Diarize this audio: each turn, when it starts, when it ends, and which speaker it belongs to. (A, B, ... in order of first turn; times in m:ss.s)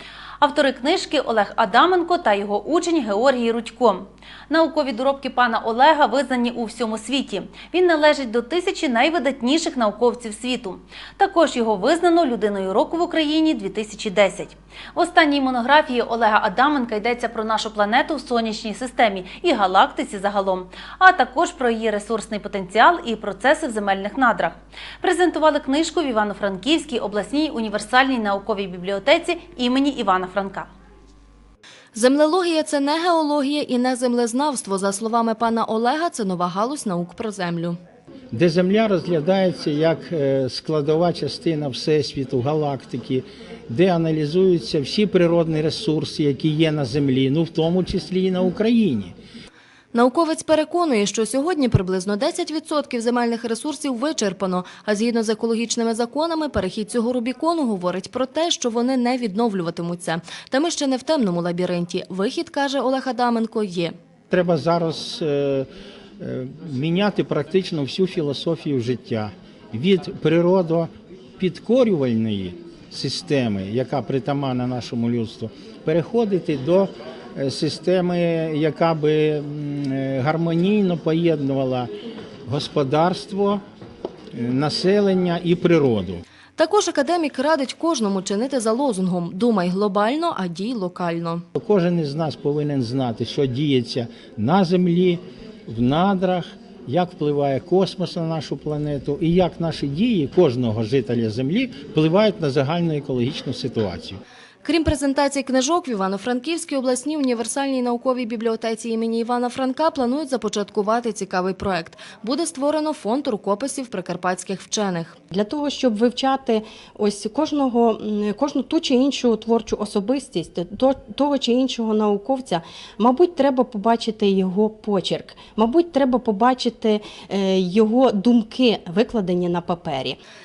0:00.4-0:30.7 A
0:31.9-0:37.8 B
0:38.3-0:49.2 C
0:49.9-1:04.0 B
1:04.3-1:05.7 C
1:06.2-1:21.9 C
1:22.5-1:23.6 C
1:24.3-1:26.2 C
1:26.6-1:31.4 B
1:31.6-1:44.2 C
1:44.6-1:55.2 B
1:55.3-2:10.2 D